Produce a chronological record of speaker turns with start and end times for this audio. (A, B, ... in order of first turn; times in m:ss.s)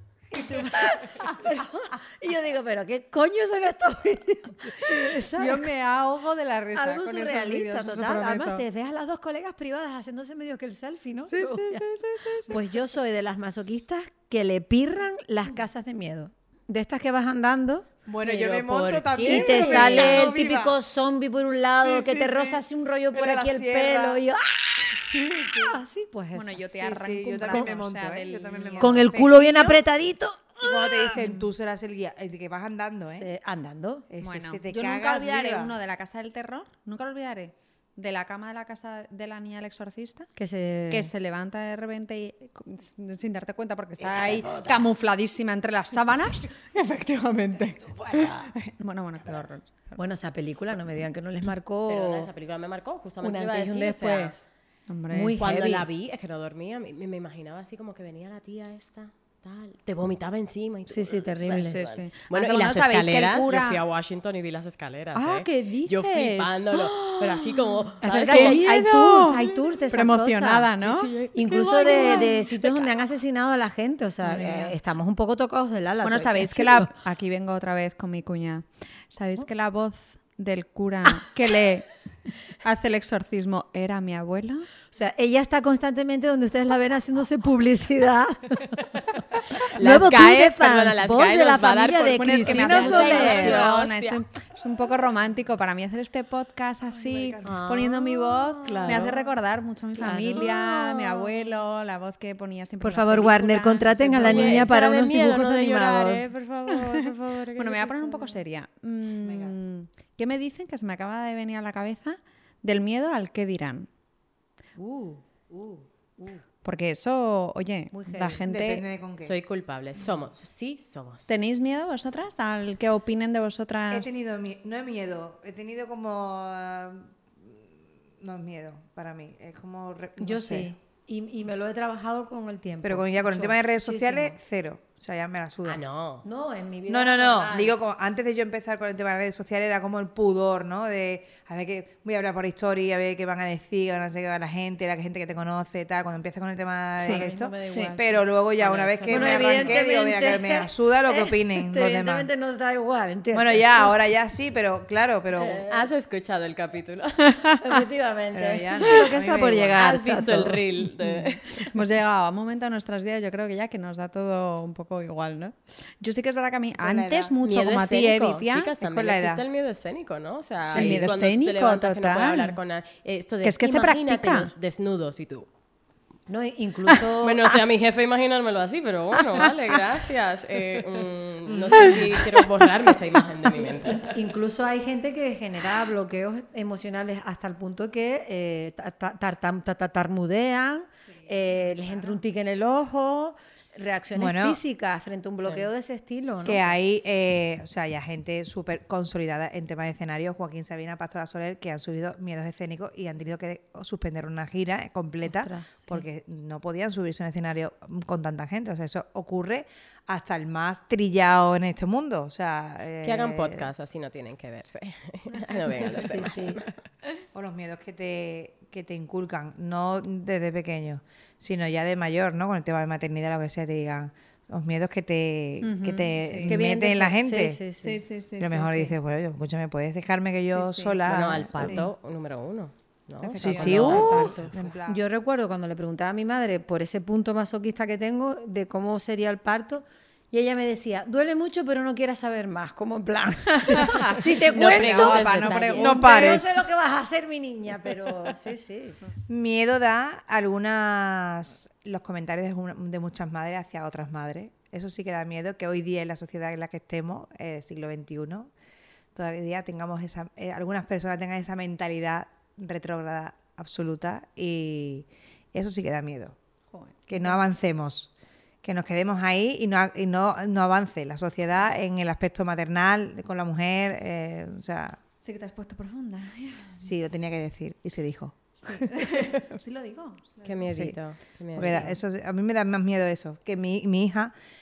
0:00.3-0:05.7 A
0:04.9-0:08.6 B
0:06.8-0:11.8 A
0:11.3-0:12.6 B
0:12.5-0:17.9 A
0:18.1-0:20.8 C
0:18.2-0:20.3 D
0:19.2-0:26.7 A
0:21.8-0:24.2 C
0:25.1-0:25.8 C
0:26.3-0:29.1 B
0:26.7-0:29.8 C
0:28.8-0:31.4 A
0:30.6-0:33.3 C
0:33.1-0:34.1 A
0:34.1-0:35.7 C
0:34.2-0:40.3 B
0:40.4-0:41.1 A
0:40.9-0:50.0 B
0:44.0-0:44.8 C
0:47.9-0:48.5 C
0:50.0-0:52.3 A
0:51.9-0:54.4 D
0:53.2-0:54.4 A
0:54.9-0:55.4 B
0:55.1-0:55.9 A
0:55.4-1:08.8 D
1:00.9-1:01.8 A
1:01.4-1:03.8 B
1:05.1-1:11.2 B
1:08.0-1:10.7 A
1:10.8-1:12.8 D
1:11.3-1:16.9 A
1:11.8-1:12.4 B
1:14.2-1:14.7 B
1:16.0-1:21.9 B
1:22.5-1:24.7 B
1:24.9-1:33.8 A
1:29.6-1:34.2 D
1:32.2-1:44.7 B
1:36.9-1:37.7 C
1:37.4-1:39.2 D
1:40.0-1:41.0 A
1:42.8-1:46.3 A
1:44.2-1:48.4 D
1:46.7-1:53.9 B
1:49.2-1:49.6 C
1:54.8-1:56.4 A
1:56.6-1:58.8 B
1:57.9-1:58.4 A
1:58.5-1:59.4 C
1:59.2-2:01.3 D
2:01.3-2:04.2 B
2:03.9-2:07.7 C
2:08.2-2:10.7 C
2:10.2-2:14.4 A
2:12.8-2:15.8 C
2:15.6-2:16.2 D
2:16.2-2:17.8 A
2:16.9-2:32.3 C
2:27.0-2:28.0 B
2:27.1-2:28.0 A
2:28.6-2:29.8 D
2:29.1-2:33.9 A
2:33.3-2:35.6 C
2:35.4-2:35.8 A
2:35.6-2:37.3 D
2:37.3-2:37.6 B
2:37.6-2:40.6 A
2:38.3-2:39.8 C
2:39.8-2:41.7 D
2:41.0-2:48.7 B
2:46.8-2:47.3 C
2:47.4-2:55.5 D
2:48.8-2:49.4 C
2:50.7-2:52.6 B
2:50.7-2:51.1 C
2:53.4-2:54.5 B
2:56.3-2:57.6 A
2:57.2-3:04.1 D
2:59.2-2:59.5 B
3:01.5-3:02.2 C
3:03.6-3:16.7 A
3:11.2-3:12.2 B
3:14.2-3:14.6 C
3:16.4-3:33.7 C
3:25.3-3:26.0 A
3:33.0-3:36.7 D
3:36.0-3:36.6 A
3:37.3-3:47.6 C
3:45.6-3:46.6 B
3:46.4-3:48.0 A
3:47.8-3:49.0 B
3:48.4-3:51.9 C
3:50.5-3:51.9 B
3:51.1-3:54.6 D
3:53.2-3:54.4 B
3:53.4-3:55.0 C
3:53.6-4:09.0 A
4:03.6-4:06.4 B
4:04.4-4:06.1 D
4:05.8-4:06.6 C
4:09.3-4:18.5 C
4:19.2-4:26.4 C
4:26.7-4:27.4 B
4:27.1-4:28.1 C
4:28.6-4:35.0 C
4:35.2-4:36.9 B
4:36.8-4:39.6 C
4:38.6-4:40.8 B
4:40.4-4:42.0 D
4:40.7-4:41.0 C
4:41.6-4:44.3 C